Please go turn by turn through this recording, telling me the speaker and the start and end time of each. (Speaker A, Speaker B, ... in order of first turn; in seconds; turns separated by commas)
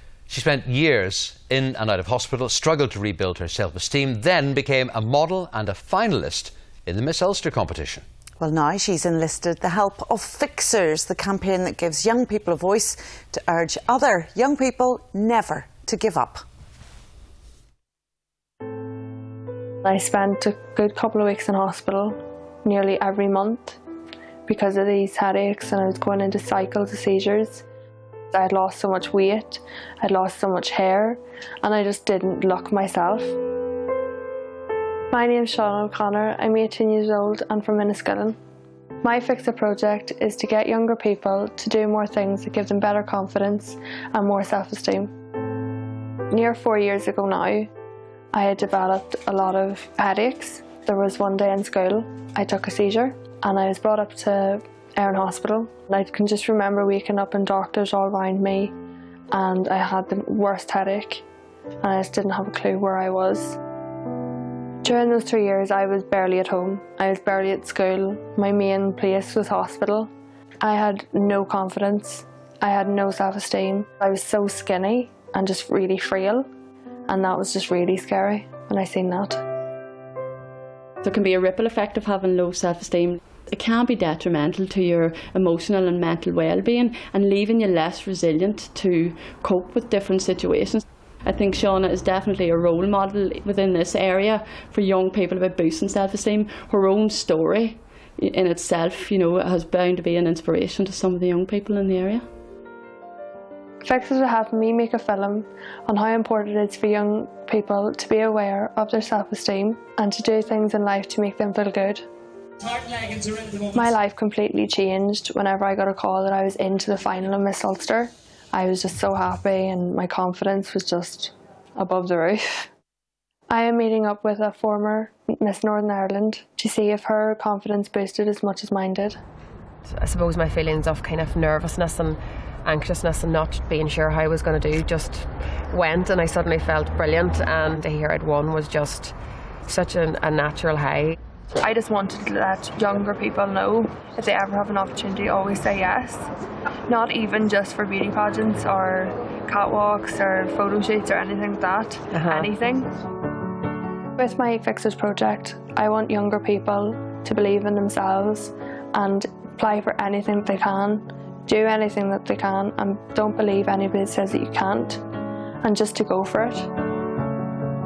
Speaker A: 0.3-8.1, Speaker B: 8.4-16.4, Speaker C: 19.8-23.8, Speaker C: 24.5-27.6, Speaker C: 28.3-33.4, Speaker C: 35.1-38.4, Speaker C: 39.0-45.1, Speaker C: 46.3-47.7, Speaker C: 48.3-58.8, Speaker C: 59.3-61.2, Speaker C: 61.8-63.6, Speaker C: 64.8-76.5, Speaker C: 77.1-79.4, Speaker D: 81.0-102.3, Speaker C: 103.8-112.0, Speaker C: 113.7-122.7, Speaker C: 123.5-129.2, Speaker E: 129.9-139.2, Speaker E: 139.7-141.2, Speaker C: 141.6-146.3, Speaker C: 146.9-152.9, Speaker E: 152.1-152.5, Speaker C: 154.2-165.0, Speaker C: 165.6-166.7